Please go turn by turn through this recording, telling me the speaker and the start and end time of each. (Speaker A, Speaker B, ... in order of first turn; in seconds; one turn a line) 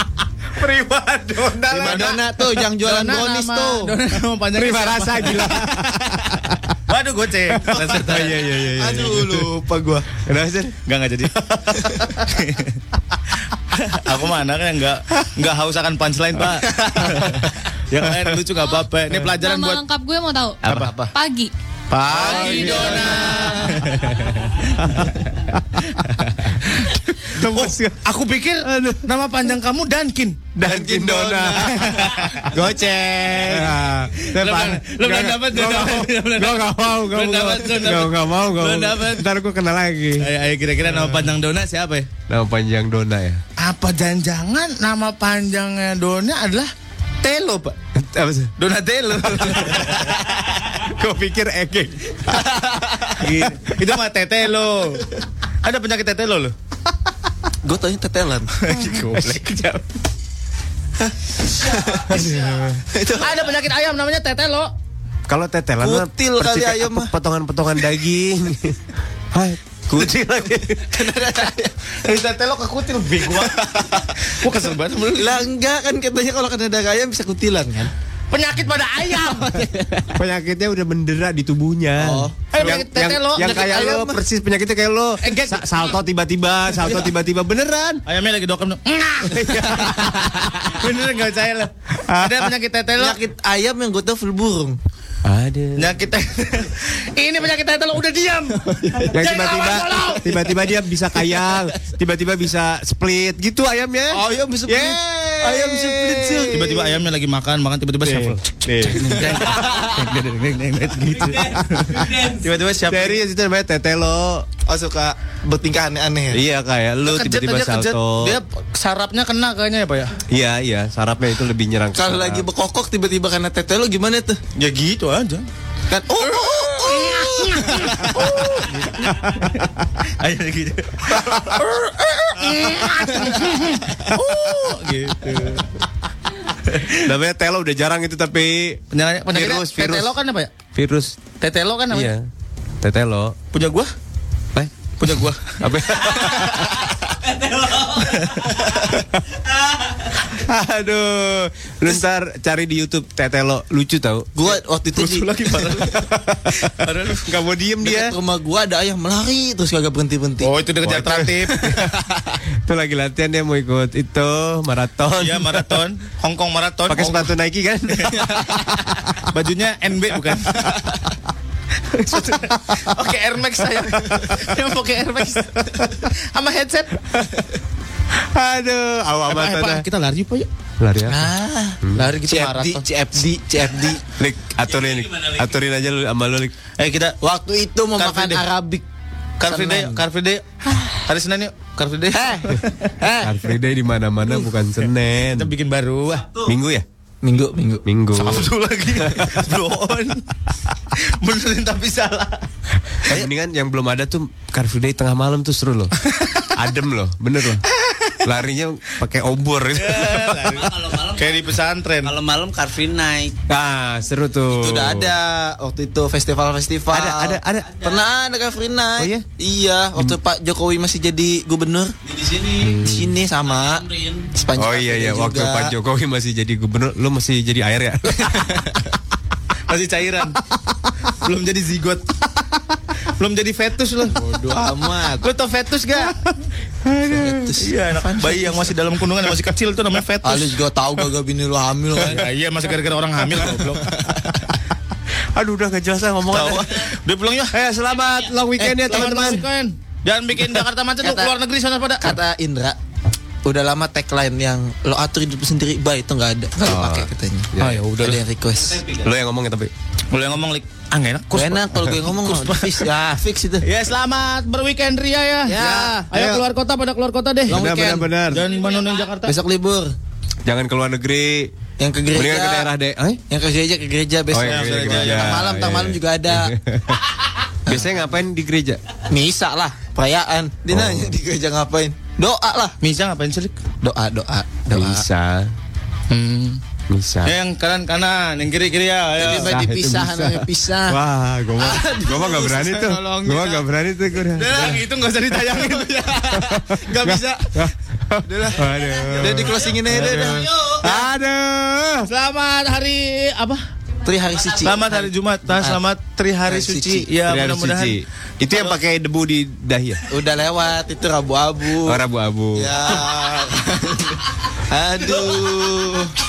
Speaker A: 0.6-2.2
Speaker B: 1.7-2.2
Speaker C: 1.7-3.9
Speaker B: 2.8-5.9
Speaker A: 4.5-6.7
Speaker B: 6.9-8.3
Speaker A: 7.7-9.5
Speaker C: 8.2-10.1
Speaker A: 10.2-10.7
Speaker B: 10.8-12.8
Speaker B: 13.7-19.8
Speaker D: 19.3-21.5
Speaker B: 20.6-20.9
Speaker C: 20.8-21.1
Speaker B: 21.9-25.3
Speaker C: 22.1-23.8
Speaker D: 22.2-23.3
Speaker B: 25.9-30.5
Speaker A: 27.2-28.1
Speaker A: 28.6-29.1
Speaker A: 30.5-40.3
Speaker C: 30.6-31.9
Speaker B: 31.8-32.5
Speaker C: 33.3-33.6
Speaker B: 34.2-39.3
Speaker B: 40.2-42.1
Speaker A: 40.8-41.3
Speaker A: 42.3-43.4
Speaker B: 43.6-46.7
Speaker B: 47.2-47.7
Speaker A: 47.9-48.5
Speaker B: 48.6-50.1
Speaker A: 49.4-49.9
Speaker A: 50.7-52.7
Speaker B: 53.2-55.1
Speaker B: 55.6-56.5
Speaker C: 57.6-58.5
Speaker B: 58.6-59.8
Speaker C: 61.0-63.5
Speaker A: 62.1-62.6
Speaker B: 62.1-62.4
Speaker B: 63.2-64.7
Speaker A: 65.3-68.8
Speaker C: 65.8-67.1
Speaker A: 69.3-70.9
Speaker C: 70.9-71.7
Speaker B: 72.0-75.5
Speaker C: 73.3-74.0
Speaker C: 75.1-77.9
Speaker B: 78.3-79.5
Speaker C: 79.5-80.0
Speaker A: 80.1-88.0
Speaker C: 82.0-84.2
Speaker B: 82.5-83.6
Speaker B: 85.2-85.9
Speaker B: 86.8-87.1
Speaker B: 88.0-93.2
Speaker A: 89.3-90.1
Speaker A: 92.1-92.5
Speaker C: 93.0-94.8
Speaker A: 95.2-95.9
Speaker B: 95.8-100.4
Speaker A: 99.0-106.7
Speaker C: 104.1-106.7
Speaker B: 106.5-113.2
Speaker A: 108.0-109.6
Speaker E: 111.1-112.6
Speaker A: 112.8-114.5
Speaker C: 114.7-116.4
Speaker A: 116.3-118.4
Speaker B: 117.0-120.1
Speaker A: 120.3-122.5
Speaker C: 121.9-124.4
Speaker B: 124.5-125.5
Speaker C: 125.9-128.5
Speaker B: 127.0-131.4
Speaker C: 131.2-132.5
Speaker B: 132.4-135.6
Speaker A: 134.3-134.5
Speaker B: 136.7-137.0
Speaker A: 137.0-140.1
Speaker B: 138.9-140.5
Speaker A: 140.7-141.2
Speaker B: 141.4-142.1
Speaker A: 141.9-142.3
Speaker A: 142.8-143.3
Speaker B: 143.5-143.9
Speaker B: 145.0-145.6
Speaker A: 145.6-146.8
Speaker E: 147.2-148.5
Speaker B: 148.1-148.5
Speaker A: 150.3-154.3
Speaker C: 154.3-155.9
Speaker B: 154.9-157.3
Speaker A: 157.2-158.1
Speaker C: 157.8-160.5
Speaker B: 160.4-161.7
Speaker A: 160.8-161.9
Speaker C: 161.7-162.3
Speaker A: 162.6-165.8
Speaker B: 165.2-167.3
Speaker A: 166.9-168.9
Speaker B: 167.9-168.3
Speaker B: 169.3-170.7
Speaker A: 172.0-172.8
Speaker B: 172.1-177.0
Speaker A: 178.2-179.8
Speaker B: 179.3-180.5
Speaker A: 180.8-181.3
Speaker C: 181.0-184.0
Speaker B: 181.9-182.8
Speaker A: 184.2-186.5
Speaker E: 184.7-185.5
Speaker B: 186.8-187.2
Speaker C: 187.2-188.8
Speaker B: 188.0-188.4
Speaker B: 189.4-190.4
Speaker C: 189.4-190.0
Speaker B: 191.0-192.9
Speaker C: 192.1-193.4
Speaker A: 193.2-195.5
Speaker B: 195.2-196.2
Speaker A: 196.4-196.8
Speaker C: 197.2-197.8
Speaker A: 197.8-198.5
Speaker B: 198.1-200.2
Speaker B: 200.9-202.4
Speaker A: 203.0-205.9
Speaker B: 206.1-206.5
Speaker A: 206.5-207.6
Speaker A: 208.2-210.5
Speaker B: 209.8-212.1
Speaker E: 210.5-213.3
Speaker A: 213.5-215.2
Speaker C: 214.5-221.9
Speaker A: 216.9-218.0
Speaker A: 219.0-219.2
Speaker E: 222.0-222.8
Speaker A: 222.6-223.1
Speaker C: 222.7-225.7
Speaker E: 223.3-224.3
Speaker A: 224.6-228.6
Speaker C: 228.2-228.7
Speaker B: 229.7-230.3
Speaker B: 231.2-232.1
Speaker B: 233.1-234.2
Speaker C: 234.1-235.3
Speaker B: 235.2-236.2
Speaker A: 236.9-237.4
Speaker C: 237.0-238.6
Speaker B: 237.6-240.6
Speaker C: 240.2-242.2
Speaker B: 242.0-243.9
Speaker C: 243.8-244.2
Speaker A: 245.3-246.9
Speaker B: 246.3-247.5
Speaker A: 247.5-249.4
Speaker C: 248.6-249.4
Speaker B: 248.8-252.1
Speaker C: 251.0-251.3
Speaker C: 252.0-252.8
Speaker C: 253.4-258.8
Speaker A: 256.6-257.8
Speaker B: 257.6-258.2
Speaker E: 258.7-259.0
Speaker A: 259.0-259.7
Speaker B: 260.1-262.5
Speaker C: 261.3-263.6
Speaker B: 263.6-269.3
Speaker C: 265.5-266.1
Speaker A: 266.1-266.4
Speaker A: 267.5-268.4
Speaker C: 267.5-268.1
Speaker E: 268.5-269.0
Speaker C: 269.2-269.9
Speaker A: 270.4-271.5
Speaker C: 271.8-272.7
Speaker A: 272.1-273.2
Speaker C: 273.3-276.5
Speaker A: 274.3-277.0
Speaker B: 274.4-275.4
Speaker A: 277.7-278.8
Speaker C: 279.1-282.8
Speaker A: 280.7-281.1
Speaker B: 282.8-283.6
Speaker C: 283.8-285.0
Speaker A: 284.7-285.5
Speaker B: 286.1-286.6
Speaker A: 286.9-287.4
Speaker B: 287.2-289.6
Speaker C: 289.2-291.0
Speaker A: 289.2-294.8
Speaker C: 291.6-293.6
Speaker C: 294.4-294.8
Speaker B: 294.4-296.3
Speaker C: 295.9-297.7
Speaker A: 296.3-302.1
Speaker C: 298.2-300.5
Speaker E: 299.5-299.8
Speaker B: 299.9-300.4
Speaker E: 300.4-300.8
Speaker B: 302.1-303.6
Speaker C: 304.0-305.8
Speaker B: 304.6-307.9
Speaker C: 306.4-307.1
Speaker A: 307.2-310.0
Speaker C: 310.1-312.0
Speaker A: 311.8-312.8
Speaker C: 312.6-316.2